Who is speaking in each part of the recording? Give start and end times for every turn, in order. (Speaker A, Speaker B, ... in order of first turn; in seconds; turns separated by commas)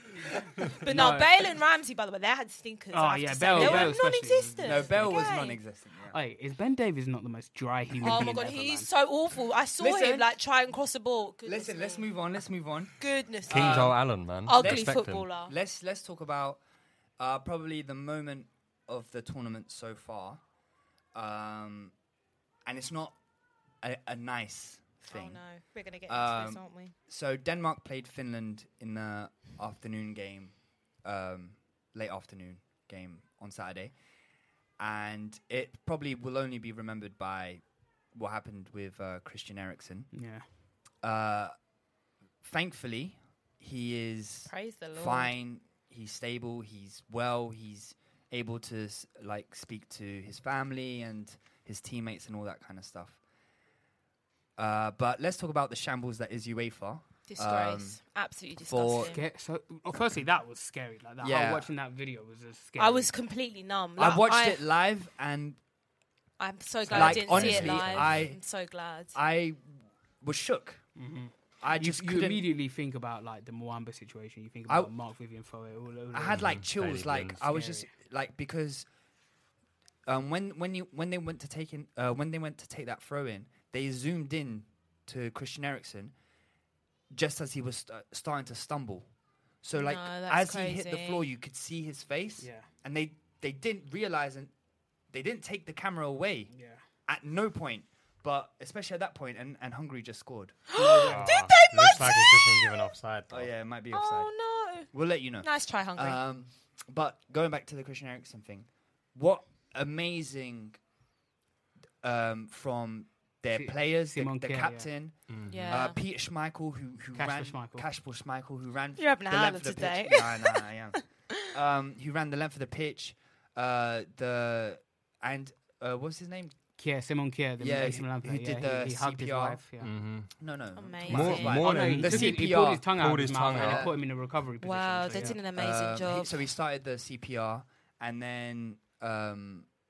Speaker A: 0.8-5.6, Speaker B: 0.9-1.3, Speaker B: 2.9-5.3, Speaker C: 3.5-3.9, Speaker C: 4.6-6.2, Speaker B: 6.1-8.9, Speaker A: 8.0-12.1, Speaker C: 9.8-10.3, Speaker C: 11.4-12.9, Speaker A: 13.0-15.6, Speaker C: 13.5-14.0, Speaker D: 13.5-15.3, Speaker C: 14.5-16.6, Speaker C: 17.2-20.4, Speaker C: 21.1-21.9, Speaker C: 22.7-23.2, Speaker C: 23.8-25.4, Speaker A: 25.1-26.9, Speaker C: 26.1-33.9, Speaker C: 34.8-37.6, Speaker C: 38.1-40.1, Speaker B: 40.1-40.5, Speaker C: 41.0-41.5, Speaker C: 42.4-53.2, Speaker A: 44.5-45.3, Speaker C: 54.6-58.0, Speaker A: 57.3-59.2, Speaker C: 58.6-59.1, Speaker B: 59.1-63.1, Speaker C: 61.2-61.7, Speaker A: 62.8-64.6, Speaker C: 64.0-65.6, Speaker A: 66.4-69.2, Speaker D: 66.8-68.3, Speaker C: 66.9-68.4, Speaker C: 69.2-69.6, Speaker C: 70.2-70.9, Speaker B: 71.0-76.4, Speaker C: 71.6-72.5, Speaker C: 74.7-74.9, Speaker C: 76.1-78.9, Speaker D: 76.4-77.4, Speaker B: 77.5-77.9, Speaker C: 80.1-86.1, Speaker C: 87.1-89.1, Speaker C: 89.6-94.5, Speaker A: 89.8-91.3, Speaker B: 92.4-92.7, Speaker C: 95.1-96.5, Speaker B: 96.5-96.8, Speaker C: 97.1-100.6, Speaker A: 100.7-102.7, Speaker B: 100.8-101.3, Speaker D: 101.1-103.5, Speaker C: 103.3-104.3, Speaker A: 103.9-106.2, Speaker C: 104.9-110.8, Speaker C: 112.0-126.5, Speaker B: 113.5-114.9, Speaker D: 115.3-115.9, Speaker A: 115.5-116.0, Speaker B: 117.2-117.9, Speaker A: 119.0-120.7, Speaker B: 126.8-129.9, Speaker C: 127.6-129.6, Speaker D: 129.8-130.3, Speaker C: 130.4-132.9, Speaker A: 130.8-131.6, Speaker D: 131.1-133.9, Speaker B: 131.5-135.4, Speaker C: 133.5-133.9, Speaker A: 134.6-136.3, Speaker C: 135.5-139.7